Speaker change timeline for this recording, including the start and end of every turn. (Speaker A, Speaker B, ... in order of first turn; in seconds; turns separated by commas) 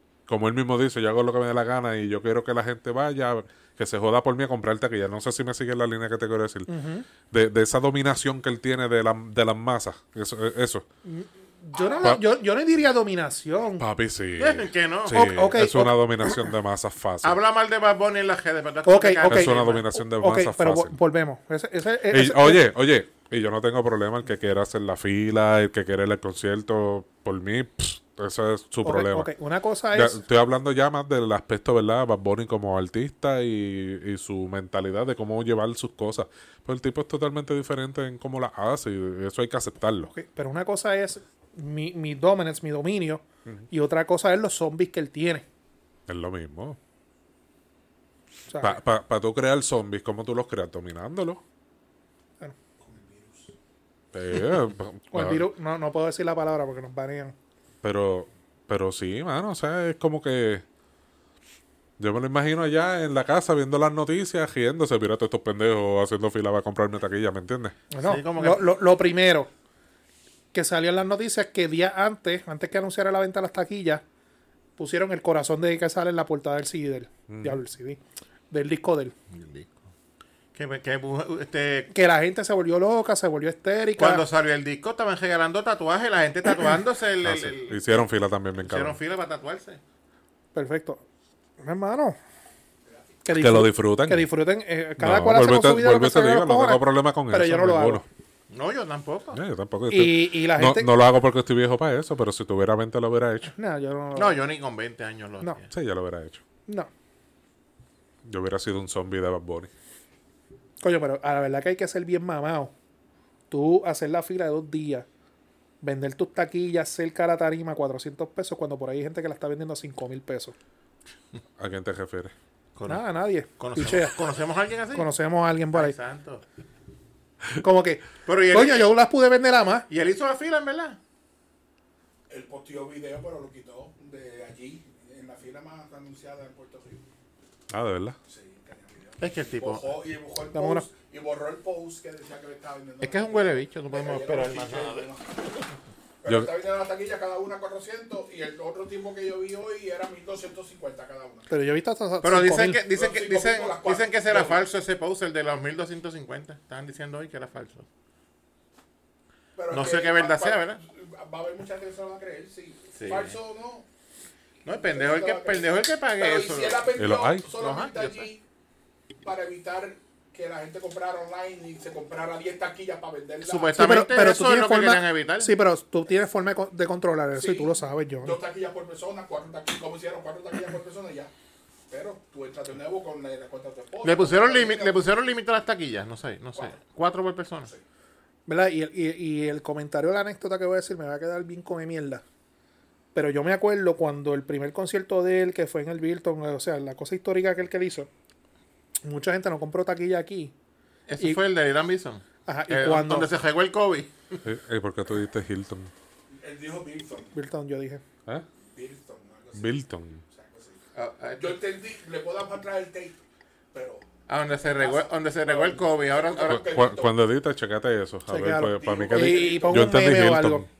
Speaker A: 0.3-6.7, Speaker B: 6.7-7.1, Speaker A: 7.2-10.8, Speaker B: 11.0-13.8, Speaker C: 11.7-12.2, Speaker A: 13.8-17.4, Speaker D: 14.4-15.3, Speaker B: 15.1-16.5, Speaker D: 17.2-19.9, Speaker B: 18.9-22.6, Speaker A: 19.2-20.9, Speaker A: 22.1-29.3, Speaker B: 28.8-30.2, Speaker A: 29.9-40.1, Speaker B: 40.0-45.4, Speaker A: 46.1-46.8, Speaker B: 48.5-48.8, Speaker A: 48.6-51.4, Speaker C: 52.8-53.5, Speaker A: 54.1-55.5, Speaker B: 55.1-57.3, Speaker A: 57.8-60.6, Speaker A: 62.0-67.8, Speaker B: 67.9-69.5, Speaker D: 68.0-68.7, Speaker B: 70.5-74.0, Speaker B: 74.8-78.0, Speaker A: 77.3-77.6, Speaker B: 78.5-79.1, Speaker D: 79.3-79.7, Speaker D: 80.5-81.9, Speaker B: 81.9-84.2, Speaker D: 84.0-87.8, Speaker A: 87.2-89.0, Speaker D: 88.6-89.8, Speaker B: 90.5-91.0, Speaker B: 91.6-92.2, Speaker B: 93.2-98.0, Speaker A: 93.3-94.3, Speaker A: 95.0-98.0, Speaker D: 98.5-99.4, Speaker A: 99.3-103.5, Speaker B: 99.9-101.0, Speaker B: 103.5-104.4, Speaker D: 104.1-105.7, Speaker A: 105.7-106.4, Speaker A: 108.2-109.7, Speaker B: 110.8-112.7, Speaker B: 113.5-115.1, Speaker B: 115.8-120.5, Speaker A: 121.6-122.3, Speaker D: 122.8-123.0, Speaker B: 122.9-124.2, Speaker D: 123.6-125.1, Speaker B: 124.9-126.0, Speaker D: 125.7-126.4, Speaker B: 127.6-129.9, Speaker D: 128.2-128.8, Speaker D: 129.9-131.0, Speaker C: 132.3-137.0, Speaker A: 137.7-138.2, Speaker C: 138.3-145.5, Speaker D: 139.2-139.9, Speaker B: 140.5-140.9, Speaker D: 143.0-145.1, Speaker C: 146.2-151.5, Speaker A: 146.2-146.5, Speaker B: 151.5-152.8, Speaker D: 152.2-157.8, Speaker C: 152.9-154.6, Speaker C: 159.6-163.8, Speaker D: 159.7-160.8, Speaker D: 162.9-163.4, Speaker D: 164.6-166.9, Speaker C: 164.7-168.4, Speaker A: 167.0-167.4, Speaker D: 167.5-168.3, Speaker C: 169.2-174.0, Speaker D: 173.4-175.5, Speaker B: 173.7-178.4, Speaker C: 177.3-181.3, Speaker C: 181.9-185.0, Speaker D: 184.0-187.7, Speaker B: 188.5-192.2, Speaker B: 193.1-198.1, Speaker B: 199.0-200.5, Speaker D: 201.1-204.4, Speaker B: 202.4-203.3, Speaker A: 204.4-205.9, Speaker C: 206.3-207.3, Speaker B: 207.3-208.0, Speaker C: 208.7-210.8, Speaker A: 209.5-210.2, Speaker D: 210.9-211.6, Speaker C: 211.4-213.2, Speaker C: 213.7-214.0, Speaker D: 214.3-216.9, Speaker C: 214.8-217.2, Speaker A: 216.5-220.7, Speaker B: 218.3-220.7, Speaker C: 218.8-220.0